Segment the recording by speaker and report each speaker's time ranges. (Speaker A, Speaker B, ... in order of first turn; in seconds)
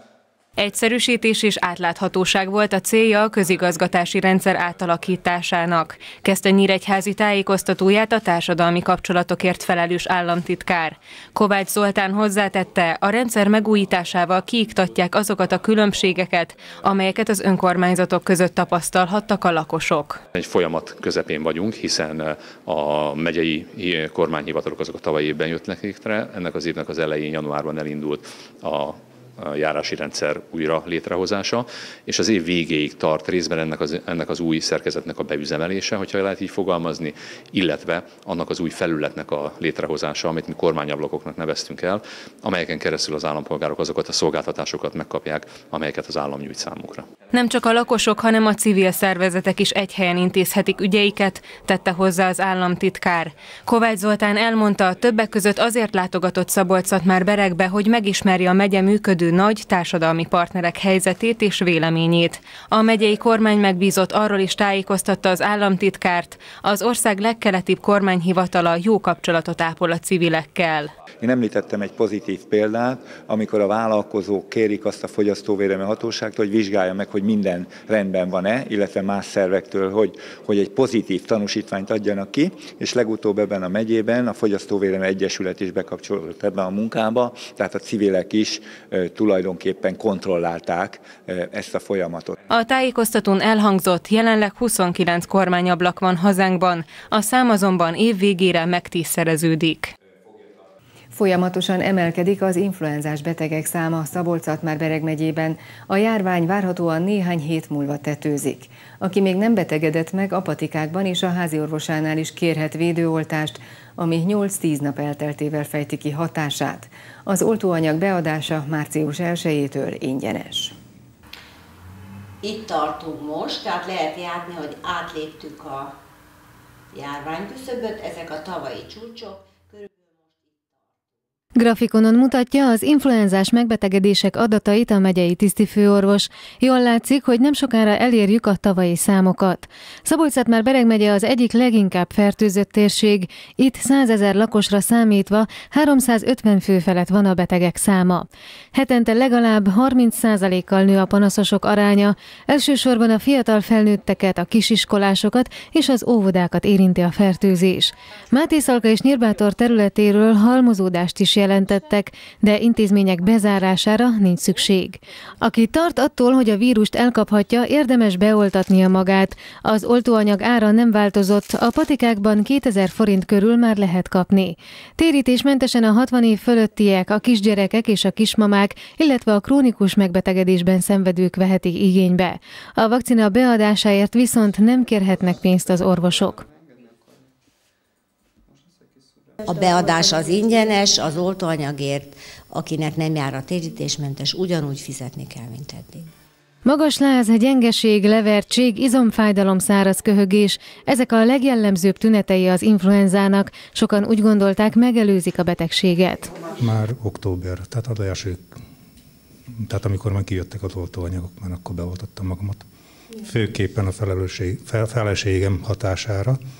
Speaker A: 0.6-20.2, 47.3-70.9, 92.5-99.9
Speaker B: 20.4-47.1
Speaker C: 71.2-92.4
Speaker D: 101.1-120.7
Speaker E: 122.4-125.9, 126.9-129.9, 189.4-196.1
Speaker F: 131.6-186.4, 196.7-206.3
Speaker G: 206.6-208.5, 209.6-212.7, 213.2-216.4